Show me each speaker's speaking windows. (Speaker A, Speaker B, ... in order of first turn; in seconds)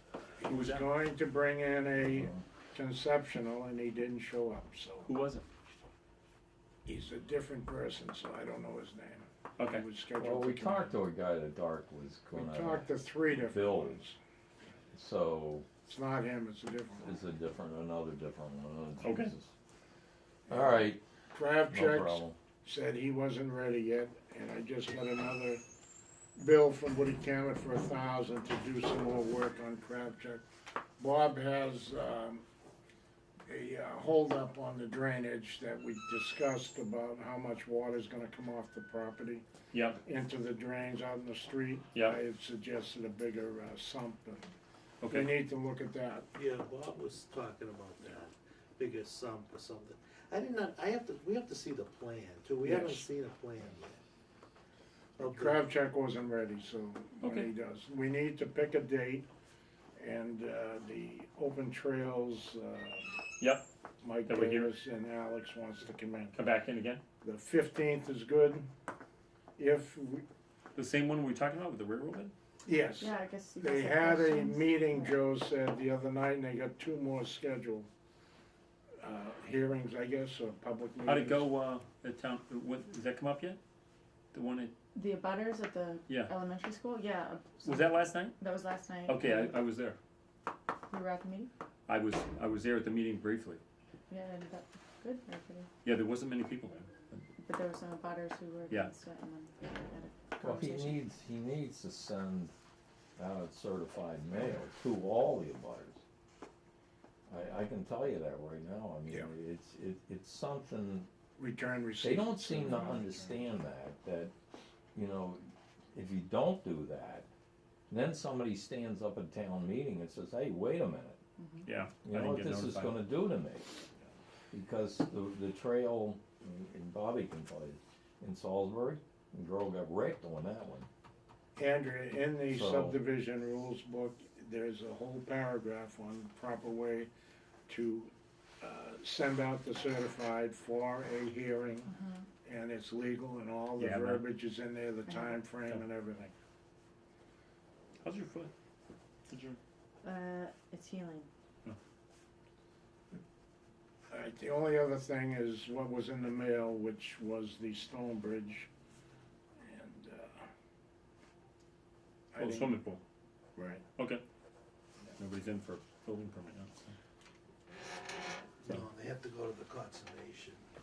Speaker A: 0.4-5.1, 6.9-11.0, 12.3-14.2, 15.9-17.2, 21.3-25.6, 26.4-30.4, 31.0-32.4, 33.5-39.5, 40.0-44.5, 45.1-46.3, 52.6-53.1, 55.2-59.3, 60.0-63.1, 64.0-66.3, 67.2-68.7, 69.6-70.2, 72.7-77.9, 79.0-81.5, 111.4-113.5, 131.6-137.1, 137.7-141.9, 142.4-146.3, 154.1-158.7, 159.6-160.5, 162.3-162.8, 163.6-163.8
Speaker B: 0.5-0.9, 5.0-5.5, 9.6-9.8, 19.0-19.3, 39.7-40.0, 45.0-45.3, 57.2-57.5, 63.4-63.6, 64.3-64.7, 66.3-67.0, 70.8-72.3, 81.1-83.6, 84.3-84.7, 86.1-86.3, 87.6-88.4, 89.1-90.0, 91.9-93.6, 95.8-97.2, 121.7-122.9, 143.8-144.3, 148.0-148.5, 149.3-149.6, 162.4-163.0, 164.0-164.2, 165.2-166.9
Speaker C: 10.2-14.0, 14.9-15.7, 17.0-19.5, 20.5-21.0, 21.6-22.4, 100.4-102.5, 103.2-106.0, 107.3-111.1, 112.0-114.3, 114.9-117.3, 117.9-121.2, 122.0-123.8, 124.5-130.9, 132.5-133.0
Speaker D: 46.4-54.0, 55.2-55.6, 168.7-170.7
Speaker E: 73.0-75.2, 85.0-89.5, 90.9-91.5, 94.1-95.7, 97.4-101.0, 121.4-121.7, 141.9-142.2, 145.1-145.4, 150.0-151.3